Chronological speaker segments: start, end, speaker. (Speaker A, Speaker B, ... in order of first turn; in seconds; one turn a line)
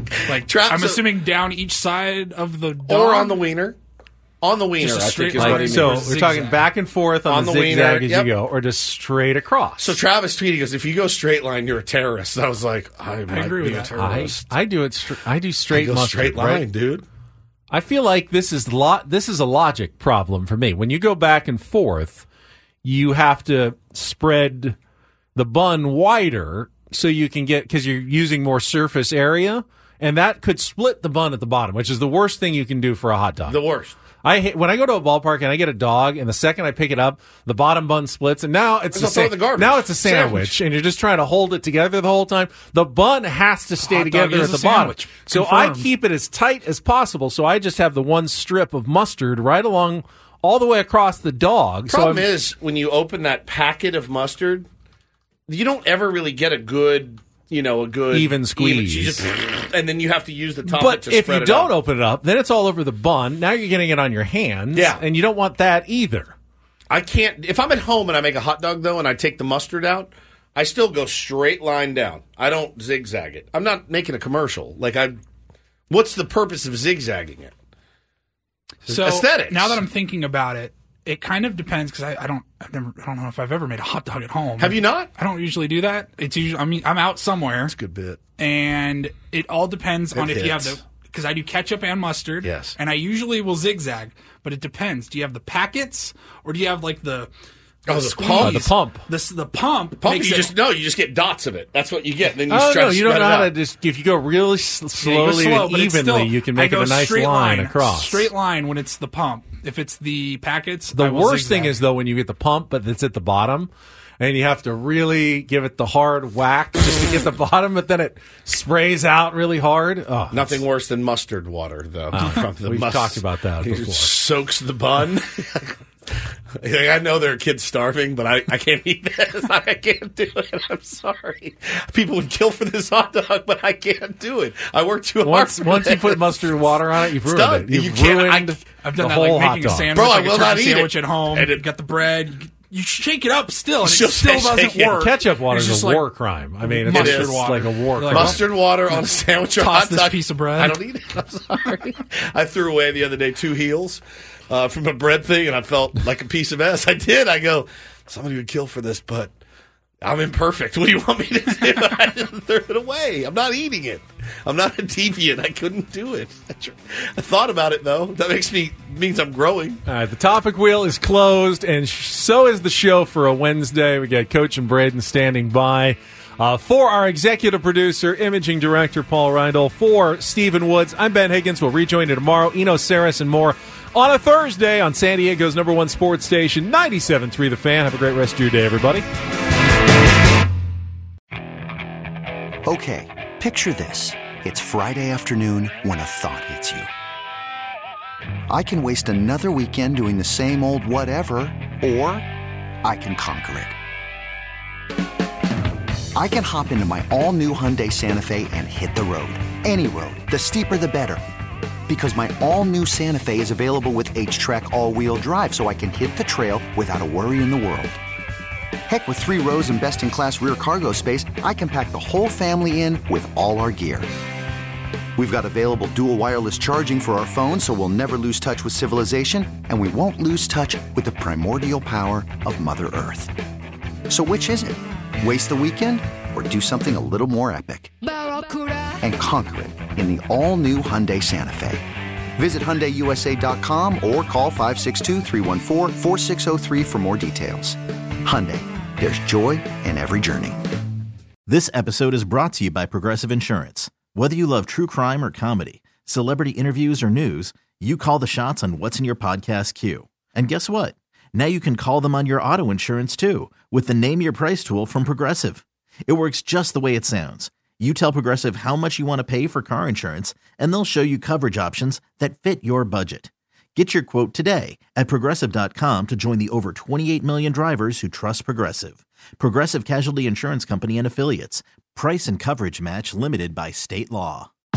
Speaker A: 0.3-3.4
Speaker B: 0.3-1.1
Speaker B: 2.9-3.8
Speaker B: 4.4-6.1
Speaker A: 4.8-6.7
Speaker C: 5.3-10.0
Speaker B: 7.3-8.3
Speaker B: 9.8-14.5
Speaker A: 13.3-14.0
Speaker C: 13.9-16.7
Speaker B: 15.7-17.1
Speaker C: 17.7-22.3
Speaker C: 22.8-24.8
Speaker C: 25.4-33.6
Speaker B: 33.5-34.0
Speaker C: 34.2-52.3
Speaker B: 38.9-40.6
Speaker A: 43.8-45.9
Speaker B: 51.9-54.7
Speaker B: 55.5-61.7
Speaker C: 58.1-59.2
Speaker C: 60.7-66.3
Speaker B: 64.7-65.0
Speaker B: 66.9-75.2
Speaker B: 75.9-77.5
Speaker A: 78.9-87.7
Speaker B: 78.9-79.8
Speaker B: 84.6-85.1
Speaker B: 87.7-88.2
Speaker A: 88.4-97.3
Speaker B: 90.1-90.8
Speaker B: 92.4-92.8
Speaker B: 97.9-98.7
Speaker A: 97.9-100.5
Speaker C: 98.4-99.0
Speaker B: 100.0-103.5
Speaker C: 102.5-108.3
Speaker A: 105.0-111.8
Speaker C: 111.0-120.6
Speaker B: 120.3-125.7
Speaker C: 122.1-124.1
Speaker B: 126.6-138.6
Speaker C: 135.2-140.0
Speaker A: 138.8-146.1
Speaker B: 139.9-141.7
Speaker B: 143.8-145.2
Speaker C: 144.9-148.4
Speaker A: 146.7-150.8
Speaker B: 146.8-159.3
Speaker B: 160.0-169.8
Speaker C: 169.9-189.1
Speaker D: 192.7-196.9
Speaker D: 198.5-202.3
Speaker D: 202.8-203.8
Speaker D: 206.2-211.2
Speaker D: 211.9-218.0
Speaker D: 218.9-224.1
Speaker D: 225.2-233.3
Speaker D: 234.1-237.9
Speaker D: 239.0-241.8
Speaker D: 242.4-250.6
Speaker E: 251.5-284.5